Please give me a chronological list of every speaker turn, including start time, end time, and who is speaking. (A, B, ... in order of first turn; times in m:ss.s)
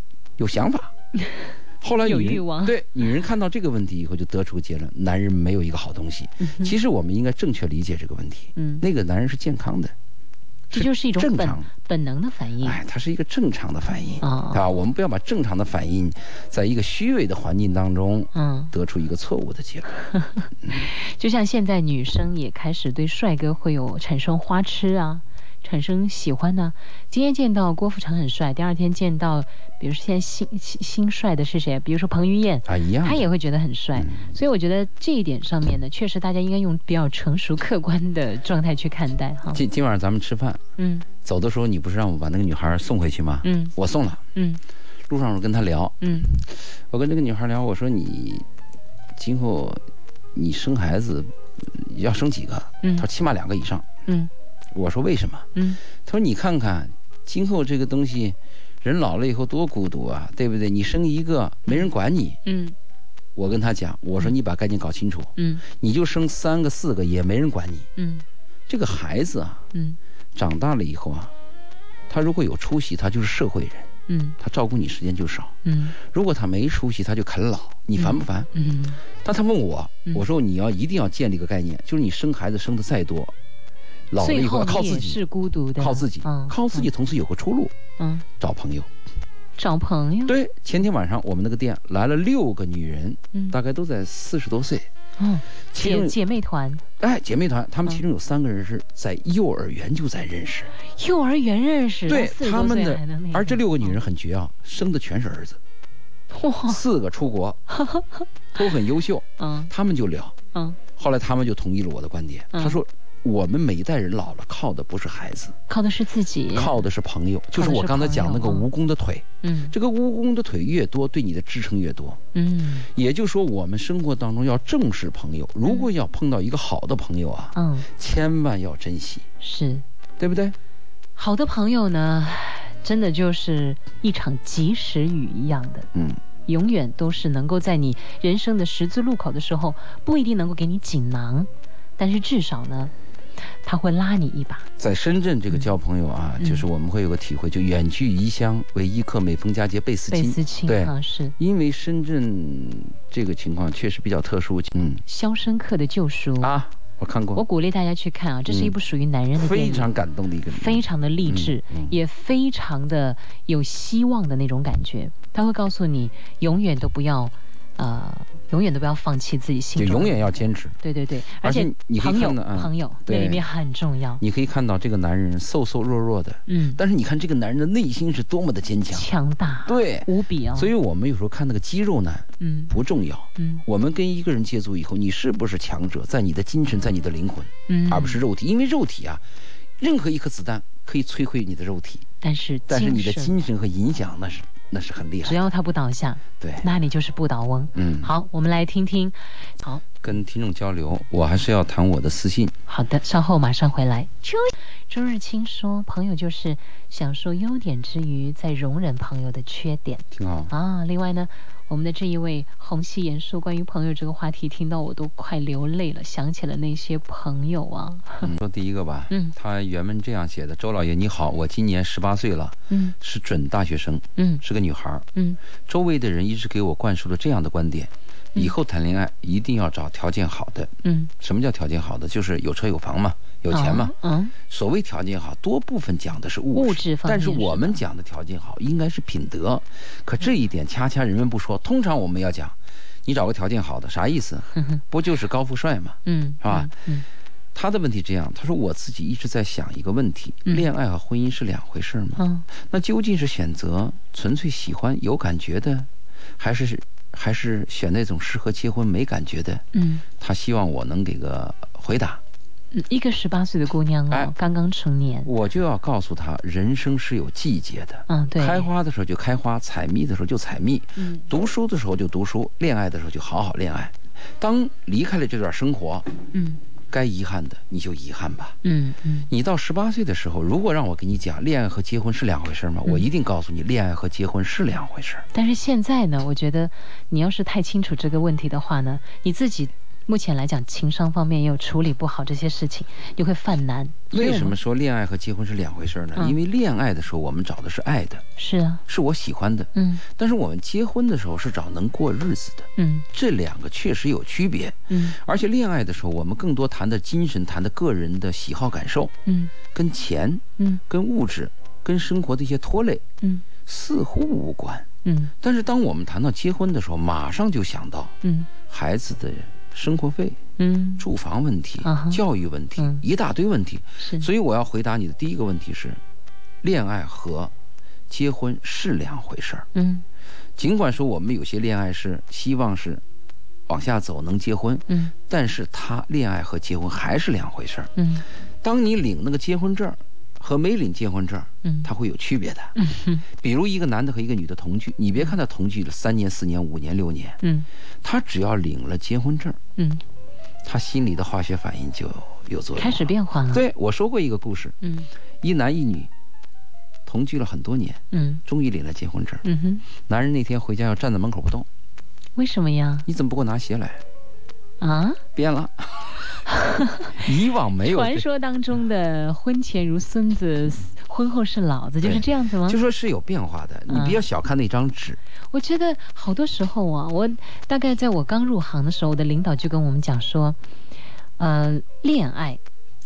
0:00.4-0:00.9 A
0:01.8-0:09.9 A
0:02.0-0:02.8 B
0:06.4-0:06.7 B
0:08.6-0:08.8 B
0:10.7-0:11.7 A
0:10.7-0:12.8 B
0:12.6-0:20.0 A
0:14.2-0:14.6 B
0:18.3-0:18.7 B
0:20.1-0:39.6 B
0:32.7-0:33.2 A
0:34.0-0:34.3 A
0:39.5-0:40.6 A
0:40.8-0:41.1 B
0:41.2-0:44.2 A
0:43.4-0:43.7 B
0:44.4-0:44.6 B
0:45.1-0:48.5 A
0:46.0-0:46.3 B
0:49.2-0:49.8 A
0:50.4-0:53.9 A
0:54.7-0:55.5 A
0:55.6-0:55.8 B
0:56.0-1:02.4 A
1:02.4-1:02.8 B
1:03.4-1:07.9 A
1:05.4-1:05.6 B
1:08.0-1:08.2 B
1:08.7-1:09.6 A
1:09.7-1:10.0 B
1:10.4-1:11.3 A
1:12.1-1:18.5 A
1:14.1-1:14.4 B
1:15.6-1:16.0 B
1:18.0-1:19.0 B
1:19.2-1:23.4 A
1:24.1-1:25.2 A
1:24.2-1:26.9 B
1:25.8-1:27.7 A
1:28.0-1:28.2 B
1:28.4-1:28.9 A
1:29.6-1:30.4 B
1:30.3-1:34.9 A
1:35.2-1:36.8 B
1:35.7-1:36.2 A
1:37.0-1:40.7 A
1:40.8-1:44.0 B
1:42.1-1:45.6 A
1:46.3-1:46.8 B
1:46.7-1:47.6 A
1:47.7-1:48.3 B
1:48.5-1:50.4 A
1:49.4-1:49.7 B
1:51.0-1:55.6 A
1:52.5-1:52.8 B
1:55.7-1:56.8 B
1:56.5-2:02.2 A
1:57.5-1:58.7 B
1:59.4-1:59.7 B
2:02.3-2:02.9 B
2:02.9-2:09.2 A
2:07.6-2:07.9 B
2:09.4-2:09.8 B
2:10.2-2:10.6 A
2:11.2-2:15.9 B
2:15.9-2:16.2 A
2:16.5-2:22.9 B
2:23.6-2:24.7 B
2:24.8-2:35.0 A
2:26.4-2:26.7 B
2:30.1-2:31.4 B
2:35.1-2:36.5 B
2:36.4-2:37.4 A
2:37.4-2:39.9 B
2:38.5-2:38.8 A
2:39.4-2:42.0 A
2:40.5-2:54.2 B
2:49.8-2:50.8 A
2:51.4-2:53.4 A
2:54.2-2:59.1 A
2:56.5-2:56.8 B
2:58.9-3:00.7 B
2:59.7-3:09.2 A
3:02.4-3:02.7 B
3:03.4-3:03.6 B
3:07.7-3:08.2 B
3:09.8-3:12.1 A
3:12.2-3:13.4 B
3:12.7-3:15.4 A
3:15.2-3:19.8 B
3:16.4-3:16.7 A
3:17.8-3:18.1 A
3:20.0-3:22.5 A
3:22.7-3:38.3 B
3:30.1-3:30.5 A
3:38.2-3:45.1 A
3:39.1-3:39.4 B
3:42.7-3:43.0 B
3:44.2-3:44.4 B
3:45.7-3:53.9 A
3:50.8-3:51.1 B
3:53.5-3:54.3 B
3:54.5-4:06.7 A
3:56.5-3:57.8 B
4:06.0-4:07.1 B
4:07.6-4:19.6 A
4:12.2-4:12.5 B
4:19.7-4:20.0 B
4:20.2-4:22.2 A
4:22.7-4:25.3 B
4:25.2-4:36.1 A
4:28.1-4:28.7 B
4:31.0-4:31.2 B
4:36.3-4:36.6 B
4:36.9-4:38.6 A
4:38.6-4:39.3 B
4:39.3-4:45.3 A
4:45.3-4:54.6 B
4:54.1-4:58.2 A
4:58.4-4:58.8 B
4:58.9-5:09.1 A
4:59.8-5:00.0 B
5:02.8-5:03.1 B
5:04.9-5:05.2 B
5:09.3-5:09.5 B
5:09.7-5:13.0 A
5:13.6-5:14.9 A
5:15.0-5:15.3 B
5:15.4-5:18.2 A
5:18.2-5:18.5 B
5:18.7-5:20.4 A
5:20.6-5:21.1 B
5:21.0-5:26.0 A
5:21.8-5:22.2 B
5:22.8-5:23.0 B
5:24.0-5:24.3 B
5:26.6-5:27.5 A
5:28.1-5:29.7 A
5:29.7-5:30.0 B
5:30.6-5:33.0 A
5:33.7-5:37.9 A
5:38.0-5:38.3 B
5:38.6-5:42.8 A
5:42.8-5:43.2 B
5:43.3-5:47.4 A
5:47.4-5:47.7 B
5:48.0-5:49.6 A
5:49.8-5:50.0 B
5:50.6-5:54.8 A
5:52.8-5:53.6 B
5:54.8-5:55.1 B
5:55.4-5:56.1 A
5:57.1-5:59.4 A
5:58.1-5:58.4 B
5:59.4-5:59.8 B
6:00.0-6:01.7 A
6:02.4-6:03.1 B
6:03.1-6:04.0 A
6:04.8-6:05.2 B
6:05.4-6:06.4 A
6:06.5-6:12.8 B
6:07.2-6:08.2 A
6:12.0-6:15.2 A
6:13.9-6:14.2 B
6:15.5-6:20.6 B
6:21.4-6:22.6 B